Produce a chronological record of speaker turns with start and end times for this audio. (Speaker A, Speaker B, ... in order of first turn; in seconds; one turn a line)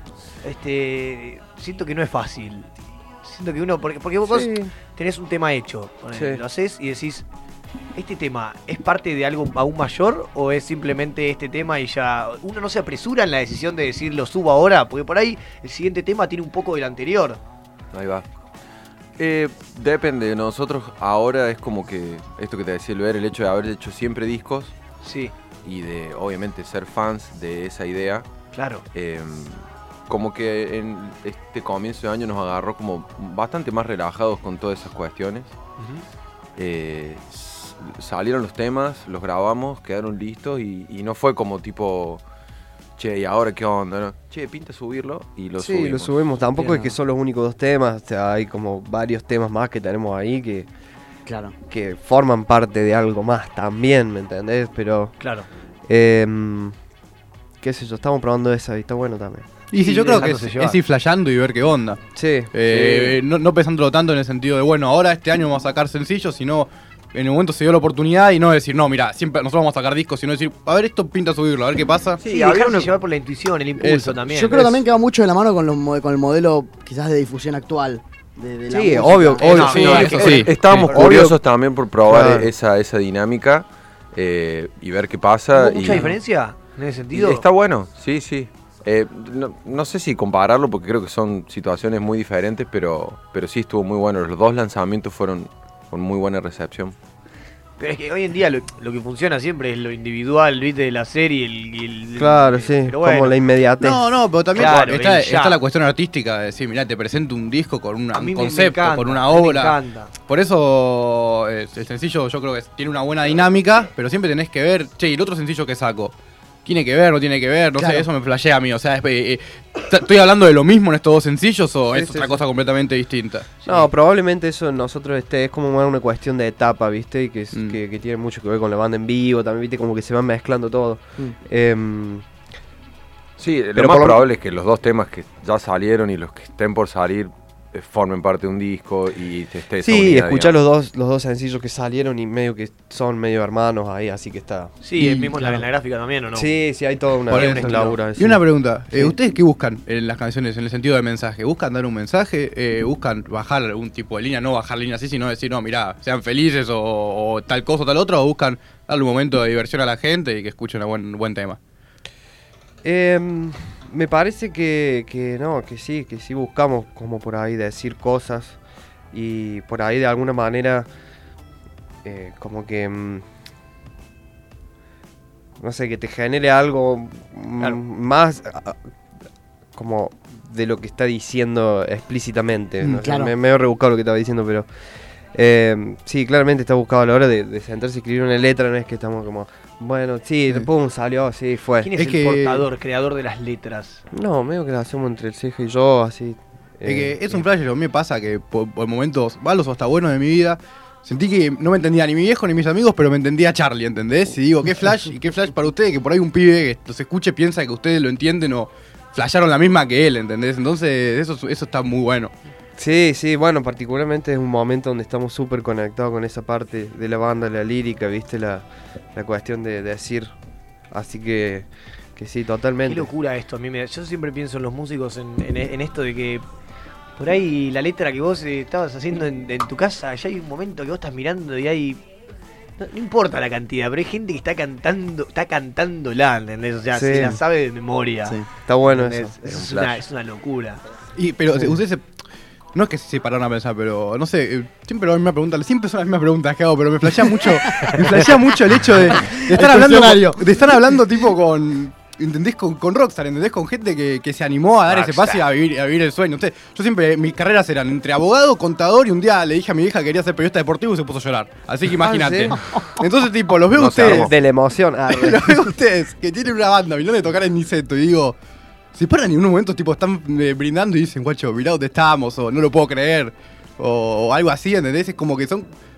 Speaker A: 0.4-2.7
Speaker A: 3.2-7.2
Speaker B: 4.3-4.7
Speaker B: 6.1-6.4
Speaker A: 7.9-17.4
Speaker C: 17.9-18.2
Speaker C: 19.2-24.7
Speaker A: 25.0-25.3
Speaker C: 25.6-28.3
Speaker A: 28.5-28.8
Speaker C: 28.9-35.5
Speaker A: 35.8-36.0
Speaker C: 36.6-42.2
Speaker C: 43.0-46.7
Speaker B: 45.6-50.7
Speaker D: 51.3-51.5
Speaker B: 51.7-55.2
Speaker A: 55.2-55.5
Speaker B: 55.9-56.7
Speaker B: 57.6-59.6
Speaker E: 59.7-72.2
Speaker A: 59.7-60.8
Speaker B: 62.1-62.5
Speaker C: 62.6-63.2
Speaker A: 72.2-74.8
Speaker C: 72.3-72.9
Speaker E: 73.8-74.2
Speaker D: 74.3-80.0
Speaker B: 78.7-81.4
Speaker A: 79.4-81.2
Speaker E: 79.5-81.3
Speaker C: 79.8-86.2
Speaker B: 82.0-82.5
Speaker A: 85.5-87.5
Speaker C: 87.1-96.9
Speaker A: 97.8-103.4
Speaker B: 102.2-104.1
Speaker E: 103.8-116.1
Speaker A: 104.5-105.6
Speaker A: 108.1-110.1
Speaker E: 116.6-123.5
Speaker B: 121.9-122.4
Speaker B: 123.6-132.2
Speaker A: 123.6-123.9
Speaker E: 127.5-127.8
Speaker C: 133.4-140.6
Speaker B: 133.7-134.2
Speaker B: 139.8-144.8
Speaker A: 144.8-146.6
Speaker E: 145.0-145.6
Speaker B: 146.3-149.1
Speaker A: 147.2-148.0
Speaker E: 147.3-161.6
Speaker B: 162.8-168.6
Speaker B: 169.1-170.9
Speaker B: 172.0-173.2
Speaker B: 175.6-178.8
Speaker B: 179.7-184.7
Speaker D: 183.0-183.3
Speaker B: 185.3-191.9
Speaker A: 191.8-194.0
Speaker E: 191.9-192.7
Speaker B: 194.1-197.4
Speaker E: 196.9-212.3
Speaker B: 212.8-220.3
Speaker B: 220.9-223.1
Speaker A: 222.8-226.4
Speaker A: 227.2-232.0
Speaker A: 232.8-240.8
Speaker B: 236.9-237.4
Speaker B: 238.6-239.4
Speaker C: 239.4-240.0
Speaker E: 241.2-242.1
Speaker E: 242.7-264.4
Speaker D: 249.2-251.0
Speaker A: 254.9-255.5
Speaker B: 262.0-262.6
Speaker C: 263.7-264.3
Speaker B: 263.9-265.6
Speaker E: 265.1-268.4
Speaker E: 268.9-275.7